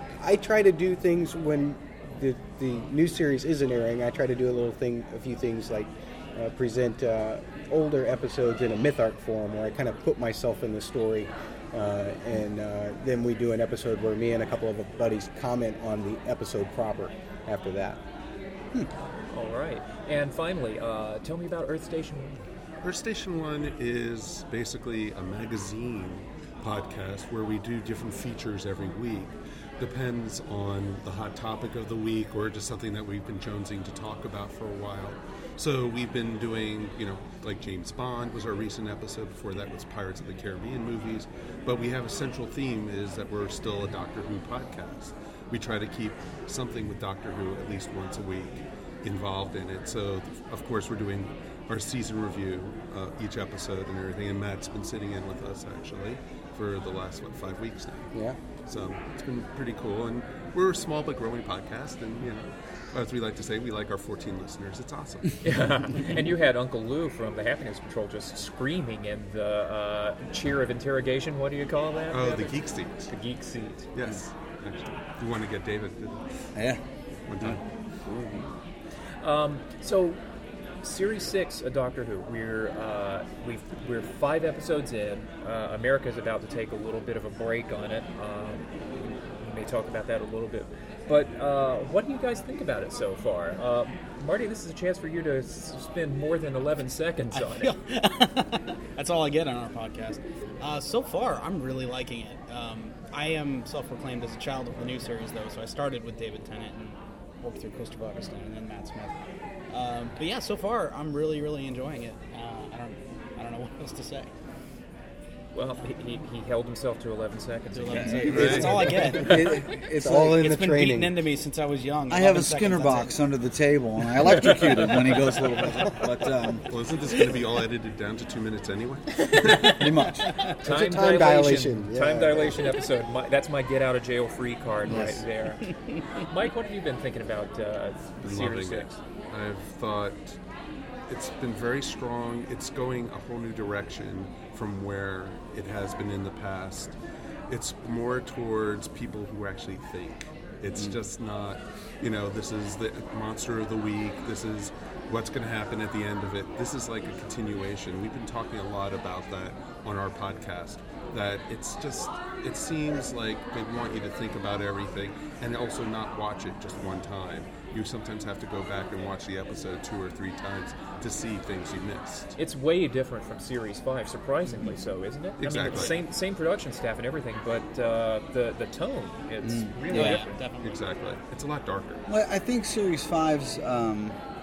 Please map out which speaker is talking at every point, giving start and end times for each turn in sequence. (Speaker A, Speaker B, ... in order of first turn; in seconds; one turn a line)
Speaker A: 0.2-18.0
Speaker B: 19.3-22.4
Speaker C: 22.8-58.1
Speaker C: 58.7-65.4
Speaker B: 65.4-72.5
Speaker C: 72.1-73.1
Speaker B: 73.1-73.8
Speaker C: 73.9-76.2
Speaker D: 76.5-76.8
Speaker C: 77.3-77.6
Speaker D: 77.4-78.4
Speaker B: 79.2-80.2
Speaker B: 80.8-97.7
Speaker E: 97.3-109.1
Speaker E: 109.7-114.3
Speaker B: 115.5-119.3
Speaker E: 117.7-123.1
Speaker D: 117.9-120.5
Speaker C: 118.3-118.9
Speaker A: 119.9-121.2
Speaker D: 122.1-126.6
Speaker C: 126.7-129.9
Speaker D: 129.8-130.3
Speaker A: 130.6-132.6
Speaker B: 130.6-138.9
Speaker D: 134.8-135.2
Speaker E: 135.6-136.0
Speaker C: 138.2-140.4
Speaker C: 141.1-146.9
Speaker C: 147.5-172.4
Speaker B: 172.4-180.4
Speaker D: 174.4-174.8
Speaker C: 175.4-176.0
Speaker D: 179.4-180.2
Speaker E: 179.9-180.8
Speaker C: 180.6-182.0
Speaker D: 182.1-184.2